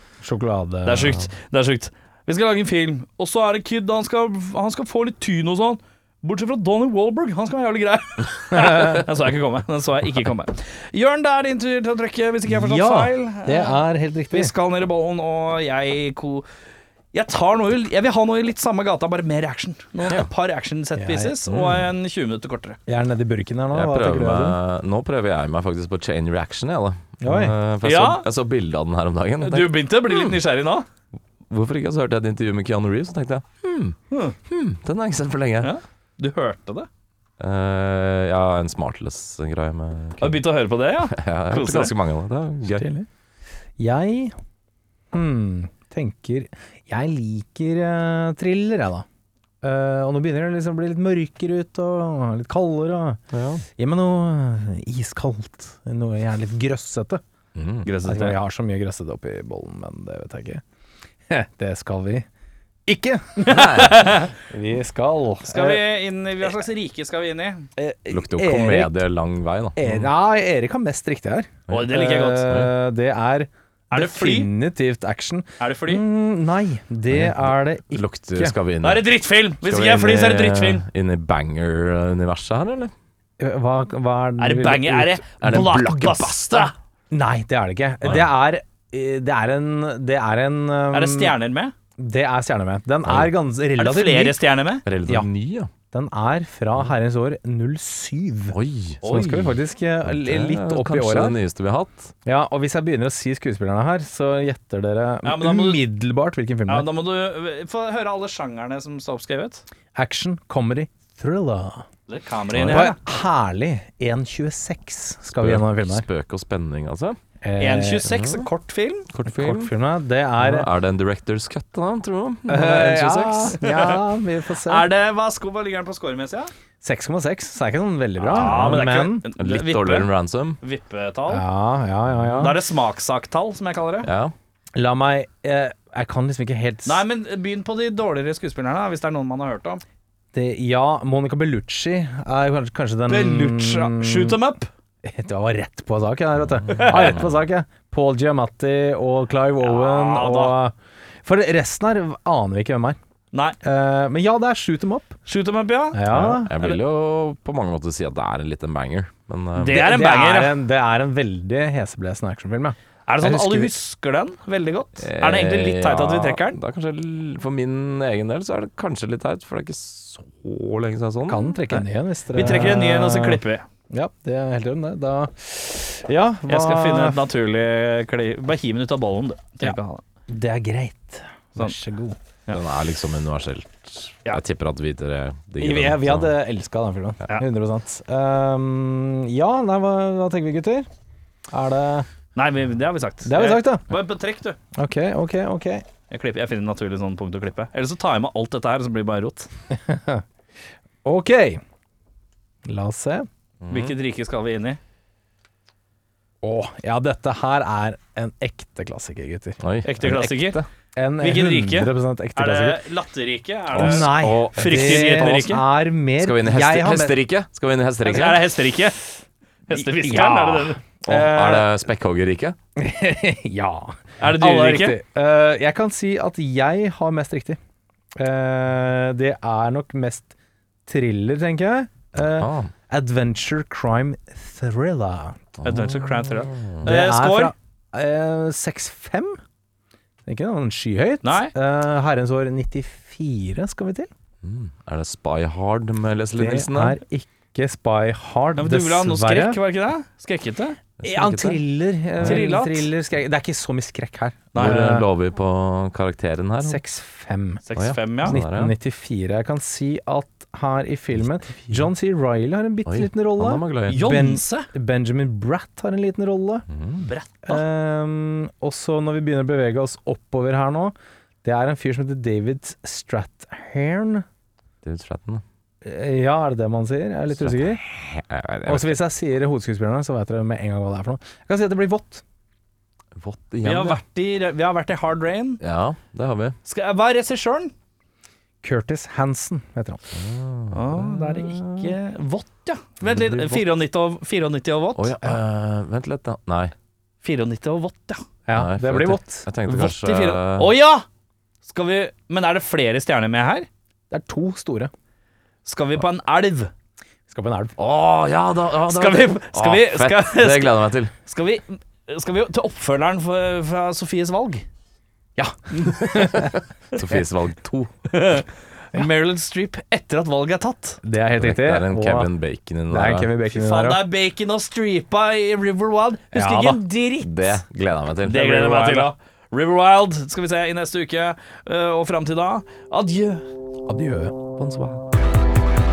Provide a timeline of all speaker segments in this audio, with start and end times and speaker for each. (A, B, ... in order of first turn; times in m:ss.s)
0:00.2-0:01.1 A
0:00.8-0:16.4 B
0:12.5-0:14.5 A
0:17.1-0:22.8 B
0:21.0-0:21.4 A
0:21.5-0:21.9 C
0:22.9-0:24.6 A
0:23.7-0:30.4 C
0:27.2-0:27.5 A
0:27.8-0:28.2 B
0:29.4-0:30.8 B
0:31.5-0:35.7 C
0:34.1-0:34.4 B
0:35.6-0:36.9 B
0:37.4-0:40.4 C
0:40.2-0:41.9 B
0:41.1-0:42.8 C
0:42.7-0:43.1 A
0:43.8-0:44.3 A
0:45.1-0:49.0 A
0:49.6-0:53.2 A
0:53.3-0:53.6 C
0:53.8-0:57.2 A
0:57.5-0:57.9 C
0:57.8-0:58.4 B
0:58.0-1:00.6 A
1:01.3-1:02.3 A
1:02.8-1:03.7 A
1:03.4-1:04.1 C
1:03.4-1:04.3 B
1:04.4-1:05.8 A
1:05.4-1:07.7 B
1:07.8-1:09.0 A
1:08.1-1:10.1 C
1:09.8-1:18.5 A
1:11.7-1:12.6 B
1:13.9-1:14.5 B
1:15.6-1:16.0 B
1:17.1-1:19.0 C
1:18.8-1:20.8 B
1:19.6-1:22.9 C
1:23.4-1:25.2 A
1:24.4-1:26.7 B
1:25.4-1:26.7 C
1:27.1-1:31.3 A
1:30.9-1:31.7 B
1:32.0-1:34.4 A
1:33.0-1:33.3 C
1:33.8-1:34.8 B
1:34.8-1:35.7 C
1:35.9-1:41.4 A
1:38.5-1:39.0 C
1:39.0-1:39.5 B
1:40.0-1:42.1 C
1:42.2-1:46.9 A
1:45.2-1:45.8 B
1:46.7-1:49.6 B
1:49.9-1:51.8 A
1:52.1-1:53.0 B
1:52.5-1:52.9 C
1:52.6-1:56.0 A
1:55.4-1:57.2 C
1:57.4-1:58.1 A
1:57.6-1:59.0 B
1:58.1-1:58.5 C
1:59.1-1:59.7 C
1:59.2-2:00.7 A
2:00.4-2:03.6 C
2:02.5-2:04.9 A
2:03.6-2:04.0 B
2:04.6-2:06.5 B
2:06.8-2:09.2 A
2:08.2-2:10.1 B
2:08.3-2:08.8 C
2:09.4-2:10.6 C
2:10.6-2:11.4 B
2:11.3-2:12.6 A
2:12.4-2:14.1 B
2:14.0-2:14.3 C
2:14.7-2:17.0 A
2:16.8-2:19.8 B
2:20.3-2:24.4 A
2:23.1-2:24.7 B
2:25.0-2:33.0 A
2:26.7-2:27.2 B
2:26.8-2:27.2 C
2:29.6-2:30.6 B
2:33.3-2:33.6 B
2:33.6-2:35.1 A
2:35.2-2:36.8 B
2:35.9-2:36.5 A
2:36.1-2:39.8 C
2:39.6-2:40.5 B
2:39.7-2:43.7 A
2:43.1-2:46.6 B
2:45.0-2:51.6 C
2:51.3-2:57.3 A
2:51.7-2:53.6 B
2:56.5-3:00.0 B
3:00.3-3:02.2 A
3:02.5-3:06.3 C
3:05.6-3:10.9 A
3:11.5-3:12.1 A
3:12.3-3:14.6 B
3:13.2-3:13.8 A
3:14.7-3:15.8 A
3:16.1-3:19.5 B
3:19.7-3:20.2 A
3:21.0-3:21.6 A
3:22.6-3:23.3 A
3:23.6-3:24.0 C
3:23.7-3:24.8 B
3:26.4-3:29.6 A
3:29.6-3:30.6 C
3:29.8-3:30.6 B
3:30.9-3:32.8 A
3:31.2-3:35.6 B
3:33.7-3:35.5 C
3:33.8-3:37.2 A
3:36.2-3:38.4 C
3:38.0-3:39.0 B
3:39.7-3:40.8 B
3:39.7-3:41.7 A
3:41.0-3:42.6 C
3:42.8-3:47.6 A
3:44.2-3:45.0 B
3:48.1-3:50.3 A
3:50.8-3:55.4 A
3:52.3-3:52.7 C
3:55.6-3:56.8 C
3:55.6-3:57.5 B
3:56.8-3:59.4 A
4:00.2-4:04.1 A
4:01.2-4:01.5 B
4:04.4-4:07.0 C
4:06.3-4:09.6 A
4:08.6-4:10.8 B
4:11.0-4:11.6 C
4:11.0-4:15.0 A
4:12.2-4:12.9 B
4:14.5-4:14.9 B
4:14.6-4:16.8 C
4:16.6-4:17.6 A
4:17.6-4:18.4 B
4:17.8-4:18.7 C
4:18.2-4:26.6 A
4:22.8-4:24.0 C
4:23.9-4:24.7 B
4:26.7-4:27.0 C
4:27.0-4:27.6 B
4:27.4-4:34.2 A
4:34.8-4:35.4 C
4:35.8-4:37.8 A
4:37.4-4:39.0 C
4:38.6-4:42.2 A
4:43.2-4:44.0 C
4:43.6-4:45.6 B
4:45.6-4:46.6 C
4:46.6-4:47.7 B
4:48.6-4:50.0 A
4:50.1-4:51.9 C
4:50.7-4:55.3 B
4:53.0-4:53.6 C
4:55.0-4:56.7 C
4:57.2-4:58.2 B
4:58.5-4:59.5 A
4:58.5-5:00.7 C
4:59.7-5:01.0 B
5:01.6-5:03.7 B
5:04.1-5:04.9 A
5:05.6-5:06.7 B
5:07.3-5:07.7 A
5:07.8-5:11.1 C
5:08.9-5:14.6 B
5:15.4-5:16.6 A
5:16.1-5:17.9 C
5:18.1-5:21.0 B
5:21.0-5:22.3 A
5:21.4-5:23.3 C
5:22.9-5:24.0 A
5:23.5-5:27.6 B
5:26.3-5:26.8 A
5:27.2-5:29.1 C
5:28.2-5:33.5 B
5:33.9-5:34.3 A
5:34.6-5:35.0 C